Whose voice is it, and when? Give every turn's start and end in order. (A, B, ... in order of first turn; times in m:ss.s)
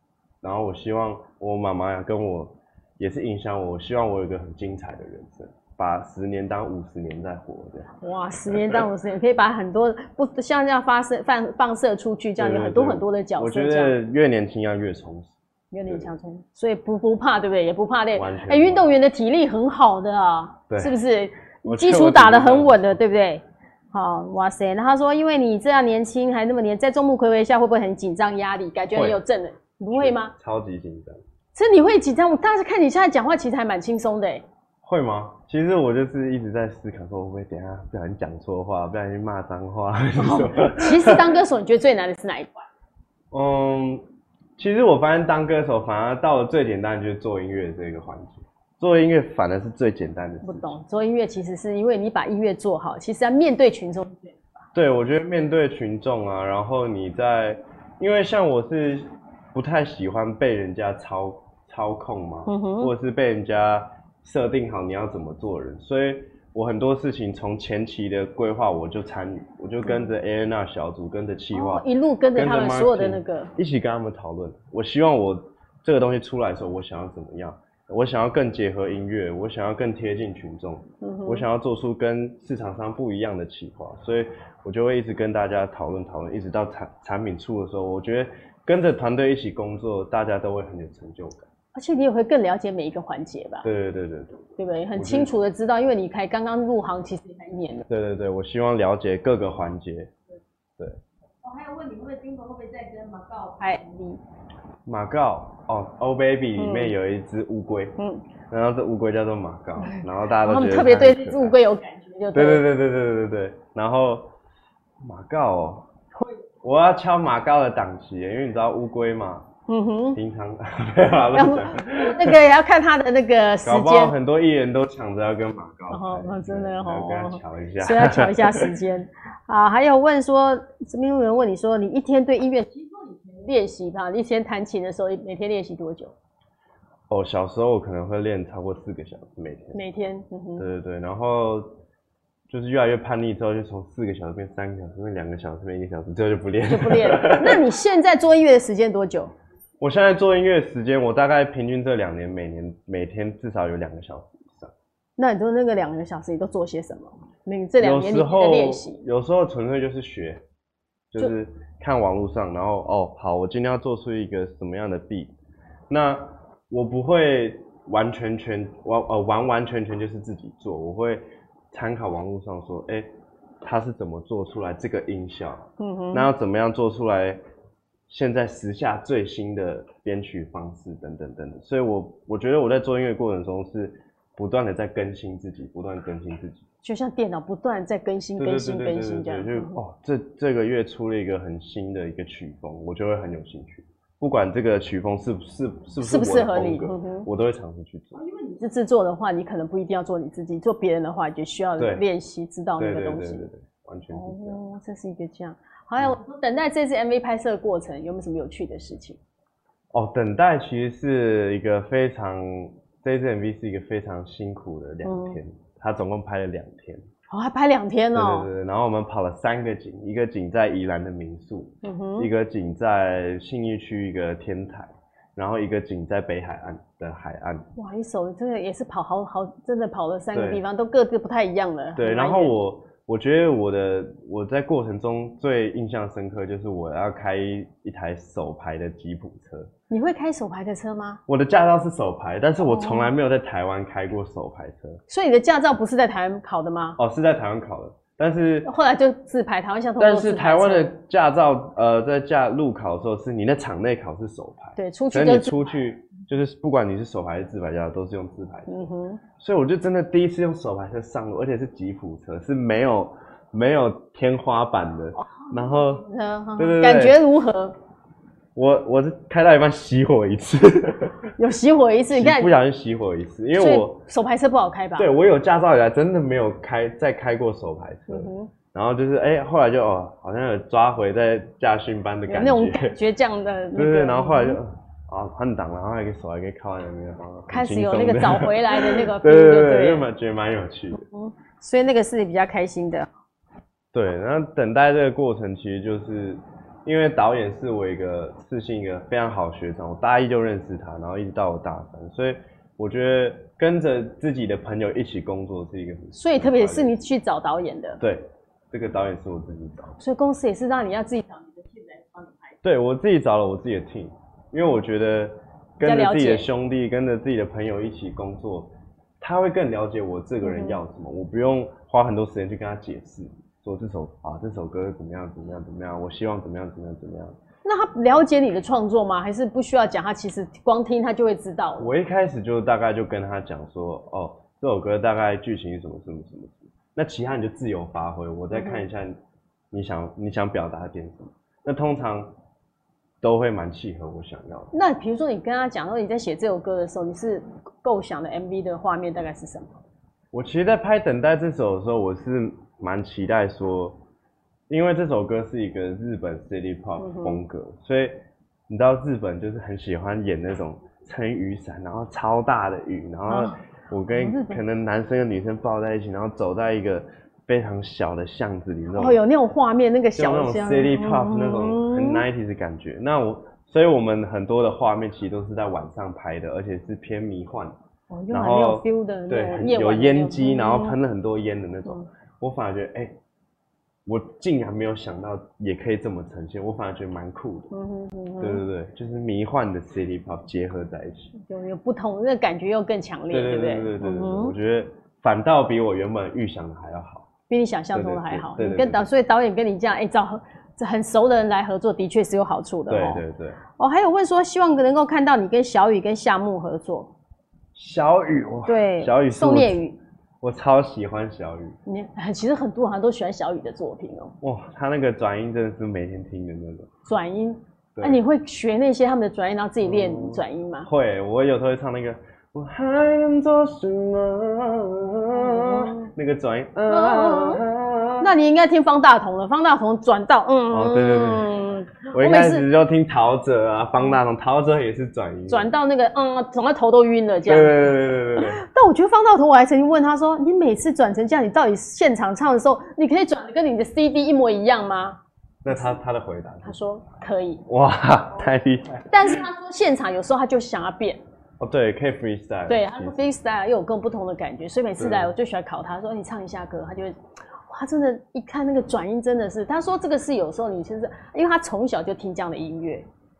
0:00.4-0:07.9 A
0:08.0-0:14.0 B
0:08.4-0:08.9 A
0:12.4-0:16.1 A
0:15.7-0:30.3 B
0:18.1-0:18.9 A
0:21.6-0:23.0 A
0:29.9-0:31.2 A
0:31.6-0:34.4 B
0:34.8-0:41.3 A
0:40.2-0:42.7 B
0:43.3-0:44.0 A
0:44.6-0:50.8 A
0:50.4-0:54.6 B
0:54.7-1:31.5 A
1:02.5-1:02.9 B
1:11.5-1:13.5 B
1:21.0-1:21.5 B
1:31.7-1:33.7 B
1:33.6-1:35.3 A
1:34.6-1:37.9 B
1:37.9-1:40.1 A
1:41.4-1:44.2 B
1:44.8-1:48.0 A
1:46.6-1:46.9 B
1:48.0-1:48.2 B
1:48.5-1:51.6 A
1:49.8-1:52.6 B
1:52.3-1:54.3 A
1:55.0-1:55.9 A
1:56.6-1:59.5 A
1:59.7-2:00.2 B
2:00.1-2:02.4 A
2:01.3-2:04.1 B
2:03.6-2:08.7 A
2:05.9-2:16.1 B
2:17.1-2:19.8 A
2:19.7-2:20.7 B
2:20.6-2:21.8 A
2:22.5-2:27.6 A
2:26.7-2:29.3 B
2:29.8-2:34.7 A
2:35.2-2:39.0 B
2:37.8-2:40.4 A
2:41.1-2:45.3 A
2:45.9-2:53.1 A
2:53.6-2:57.4 A
2:55.8-2:56.3 B
2:58.1-3:06.6 A
3:06.8-3:09.8 B
3:08.4-3:18.2 A
3:16.0-3:17.3 B
3:18.1-3:23.5 B
3:21.8-3:22.0 A
3:22.8-3:24.6 A
3:24.1-3:29.2 B
3:29.9-3:37.0 A
3:35.0-3:35.4 B
3:37.3-3:38.5 B
3:38.1-3:47.7 A
3:41.8-3:42.3 B
3:47.8-3:52.5 B
3:50.3-3:50.6 A
3:52.0-3:59.7 A
3:59.9-4:01.2 B
4:01.3-4:05.0 A
4:02.6-4:03.1 B
4:05.1-4:07.0 B
4:07.0-4:08.7 A
4:08.6-4:10.9 B
4:10.0-4:18.9 A
4:14.8-4:15.7 B
4:18.7-4:19.2 B
4:19.4-4:26.0 A
4:25.2-4:27.8 B
4:26.6-4:27.2 A
4:28.6-4:31.3 A
4:31.4-4:32.5 B
4:32.1-4:34.0 A
4:33.6-4:35.1 B
4:35.0-4:43.0 A
4:38.1-4:38.5 B
4:42.3-4:44.6 B
4:43.8-4:51.0 A
4:47.5-4:50.1 B
4:50.9-4:53.1 B
4:53.9-5:07.0 A
5:06.1-5:08.0 B
5:08.0-5:10.0 A
5:10.0-5:12.6 B
5:12.6-5:27.4 A
5:15.8-5:16.5 B
5:20.4-5:20.8 B
5:27.6-5:31.9 B
5:31.8-5:39.2 A
5:38.5-5:38.8 B
5:39.7-5:42.3 A
5:43.2-5:44.7 A
5:44.7-5:49.8 B
5:50.3-5:54.0 A
5:54.7-5:58.2 A
5:57.0-5:57.4 B
5:58.7-6:09.2 A
6:03.3-6:03.6 B
6:04.1-6:04.6 B
6:08.9-6:12.2 B
6:10.2-6:17.8 A
6:18.1-6:21.0 B
6:18.3-6:23.2 A
6:24.1-6:27.7 A
6:27.7-6:28.6 B
6:28.4-6:31.3 A
6:31.4-6:34.6 B
6:33.3-6:37.3 A
6:37.5-6:43.2 B
6:37.9-6:39.1 A
6:42.9-6:43.6 A
6:43.8-6:47.1 B
6:47.8-6:49.8 A
6:48.6-6:50.0 B
6:50.4-6:51.8 A
6:51.9-6:54.4 B
6:54.4-6:56.9 A
6:57.1-7:00.9 B
6:59.8-7:08.3 A
7:05.3-7:06.1 B
7:06.9-7:07.6 B
7:08.2-7:12.6 B
7:10.7-7:11.5 A
7:12.1-7:15.7 A
7:15.5-7:25.9 B
7:17.4-7:18.6 A
7:25.6-7:26.8 A
7:26.6-7:27.6 B
7:27.7-7:29.1 A
7:29.1-7:31.2 B
7:31.6-7:33.2 A
7:32.7-7:37.2 B
7:35.0-7:35.3 A
7:37.7-7:43.1 B